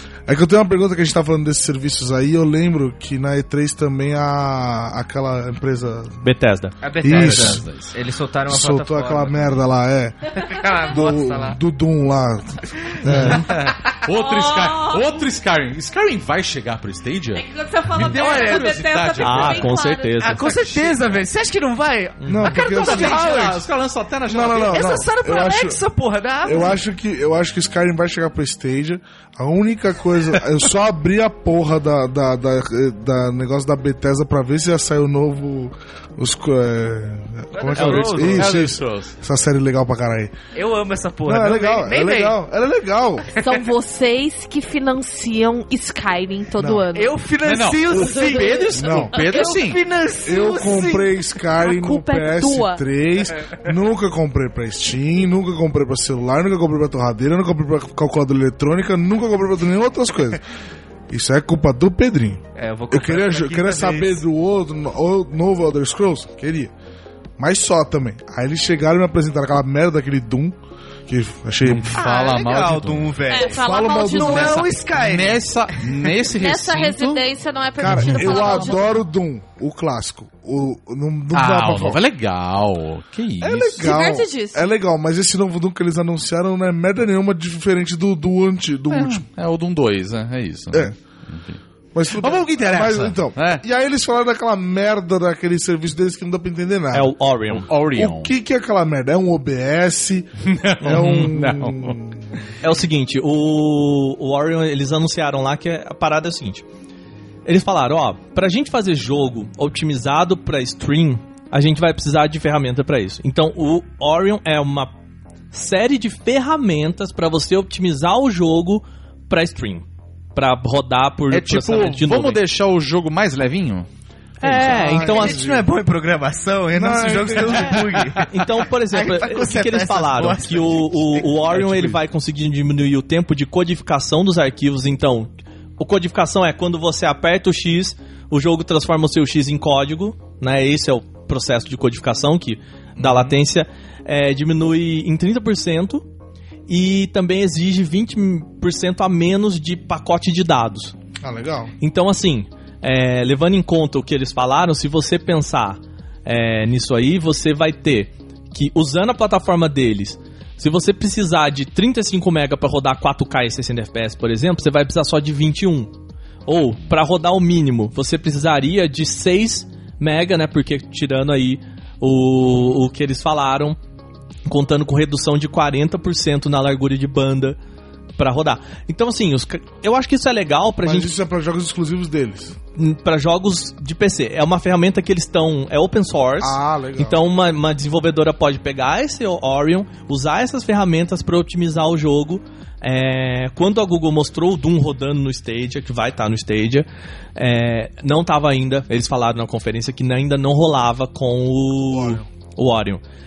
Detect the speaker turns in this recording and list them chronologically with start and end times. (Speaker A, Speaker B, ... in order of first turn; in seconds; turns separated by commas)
Speaker A: 0.3-6.2, Speaker B: 6.2-7.6, Speaker C: 6.8-9.6, Speaker A: 7.0-7.6, Speaker D: 7.1-7.9, Speaker A: 8.5-10.3, Speaker C: 10.3-11.6, Speaker A: 10.9-13.5, Speaker C: 13.1-13.8, Speaker D: 13.2-19.7, Speaker E: 14.1-15.2, Speaker E: 17.3-20.3, Speaker C: 18.0-19.1, Speaker B: 19.2-20.5, Speaker C: 20.2-23.6, Speaker D: 20.4-21.2, Speaker B: 22.2-22.7, Speaker A: 22.3-23.4, Speaker D: 22.7-25.1, Speaker A: 24.3-25.8, Speaker C: 24.7-26.8, Speaker A: 26.4-40.3, Speaker C: 37.5-38.6, Speaker B: 37.8-38.4, Speaker D: 37.8-39.1, Speaker C: 40.5-42.4, Speaker A: 41.2-43.3, Speaker C: 43.3-43.7, Speaker E: 43.4-47.2, Speaker A: 46.6-46.9, Speaker C: 46.9-51.1, Speaker D: 47.4-49.8, Speaker E: 48.0-48.7, Speaker A: 48.7-49.4, Speaker E: 49.2-49.5, Speaker A: 50.2-60.4, Speaker E: 51.6-52.8, Speaker A: 61.1-66.7, Speaker C: 62.5-64.2, Speaker A: 67.4-70.5, Speaker A: 71.1-72.0, Speaker D: 71.6-73.1, Speaker C: 71.9-75.5, Speaker E: 73.3-74.7, Speaker A: 73.5-74.7, Speaker D: 74.7-77.2, Speaker E: 76.4-79.0, Speaker A: 77.8-82.0, Speaker B: 77.8-78.5, Speaker D: 81.3-84.0, Speaker A: 83.4-89.2, Speaker E: 83.8-84.7, Speaker D: 88.9-91.6, Speaker A: 91.9-102.2, Speaker D: 92.1-93.6, Speaker B: 96.9-97.7, Speaker D: 97.5-98.3, Speaker D: 100.4-102.5, Speaker B: 100.9-101.3, Speaker B: 102.6-106.6, Speaker B: 107.5-114.9, Speaker B: 115.5-122.4, Speaker D: 121.3-123.9, Speaker B: 124.4-125.4, Speaker A: 124.4-125.7, Speaker C: 124.6-131.7, Speaker A: 126.7-128.2, Speaker B: 128.3-146.0, Speaker A: 143.0-143.3, Speaker B: 146.7-150.9, Speaker A: 151.2-151.7, Speaker B: 151.8-165.9, Speaker B: 166.4-173.8, Speaker B: 174.4-177.6, Speaker B: 178.2-181.1, Speaker A: 180.8-182.6, Speaker B: 182.8-203.0, Speaker A: 186.4-187.2, Speaker A: 201.9-202.2